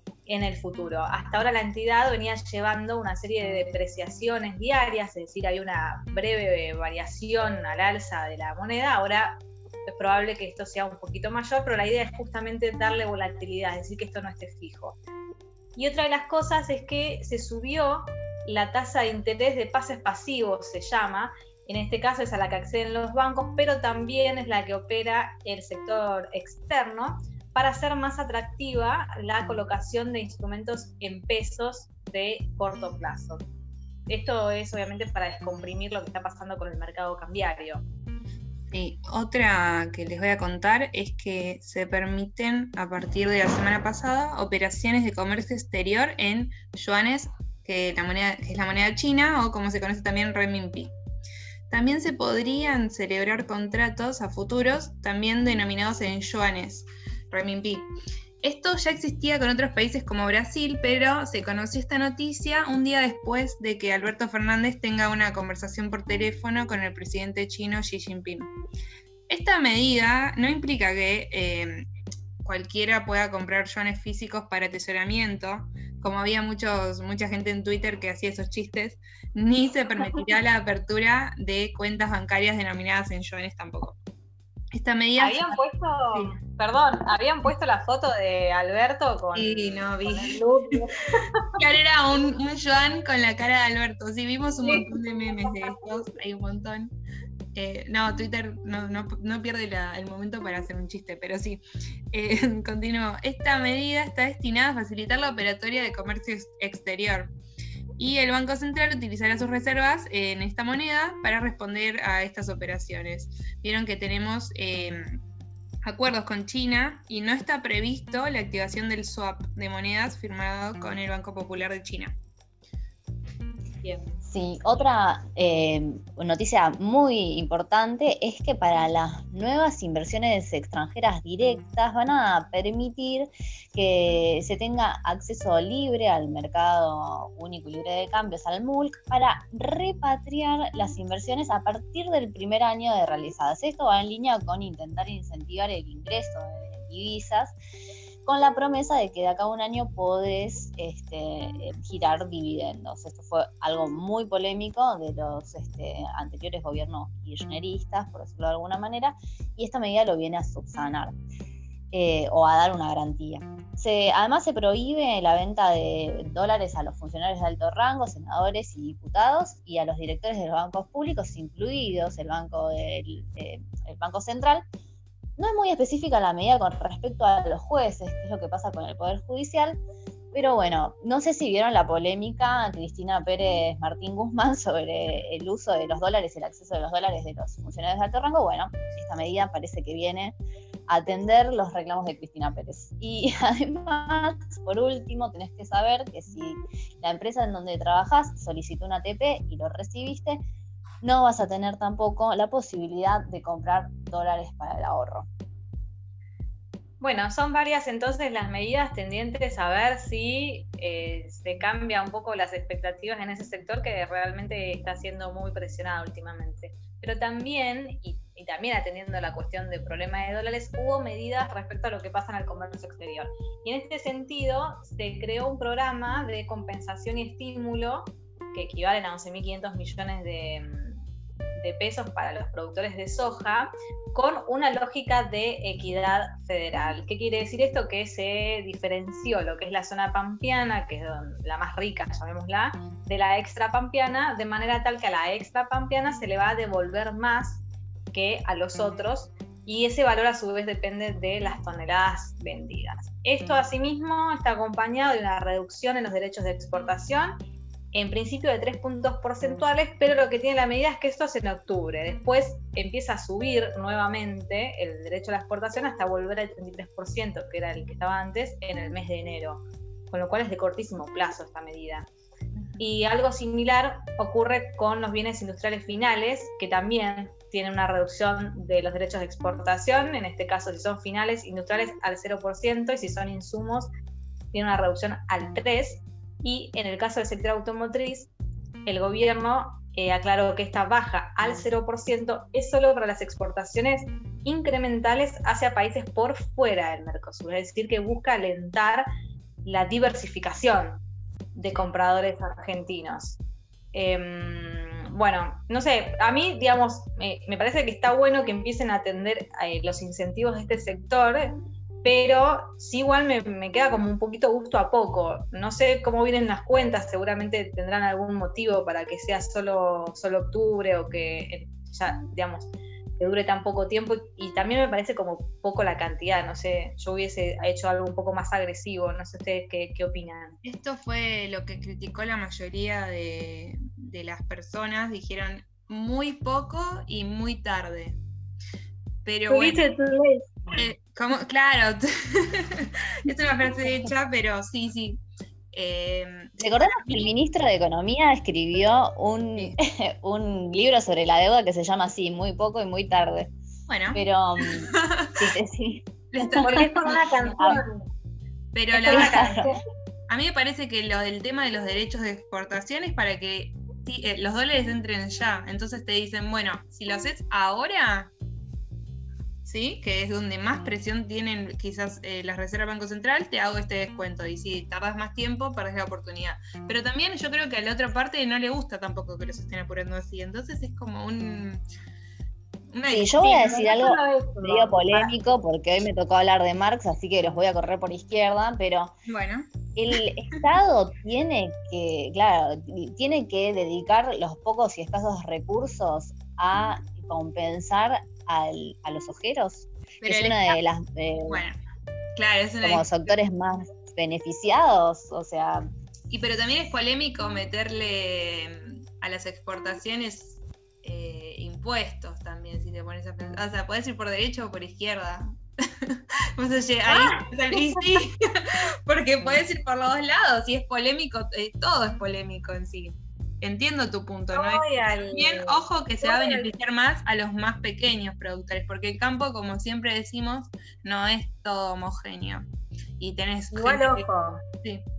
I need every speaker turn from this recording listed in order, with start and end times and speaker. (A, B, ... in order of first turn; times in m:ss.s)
0:00.3-0:15.0 A
0:15.8-0:33.4 A
0:34.1-0:37.8 A
0:38.7-0:50.9 B
0:51.7-0:57.9 B
0:58.4-1:08.5 B
1:09.3-1:11.9 B
1:12.4-1:24.0 B
1:24.7-1:25.6 B
1:25.2-1:31.5 A
1:29.4-1:30.4 B
1:31.6-1:36.9 B
1:34.6-1:36.0 A
1:37.5-1:47.3 B
1:48.0-1:55.2 B
1:55.8-2:02.2 B
2:03.8-2:04.1 A
2:04.2-2:27.6 C
2:28.2-2:41.2 C
2:41.9-2:54.6 C
2:55.4-2:59.8 C
3:00.3-3:10.4 C
3:10.9-3:20.4 C
3:21.0-3:25.3 C
3:27.0-3:51.0 A
3:51.6-4:17.4 A
4:17.9-4:32.1 A
4:32.8-4:43.9 A
4:44.5-4:48.3 A
4:48.9-4:59.1 A
4:59.6-5:01.0 A
5:01.5-5:03.4 A
5:03.9-5:30.6 A
5:30.6-5:38.2 B
5:39.2-5:39.9 B
5:39.5-5:40.8 A
5:40.7-5:45.2 B
5:45.7-5:47.3 B
5:46.6-5:53.5 C
5:53.9-5:55.3 B
5:54.1-5:56.8 C
5:56.3-5:57.8 B
5:56.5-5:58.1 A
5:58.7-5:59.7 B
5:58.9-5:59.8 A
5:59.1-5:59.7 C
6:00.3-6:08.3 B
6:09.6-6:21.8 B
6:22.9-6:23.9 B
6:23.1-6:29.1 C
6:23.4-6:25.3 A
6:29.2-6:30.6 B
6:30.0-6:41.6 C
6:40.2-6:40.8 B
6:41.5-6:41.8 B
6:42.4-6:43.4 B
6:42.8-6:45.9 C
6:46.3-7:12.7 B
6:57.1-6:58.2 A
7:04.5-7:06.7 A
7:13.2-7:14.2 B
7:13.7-7:14.6 A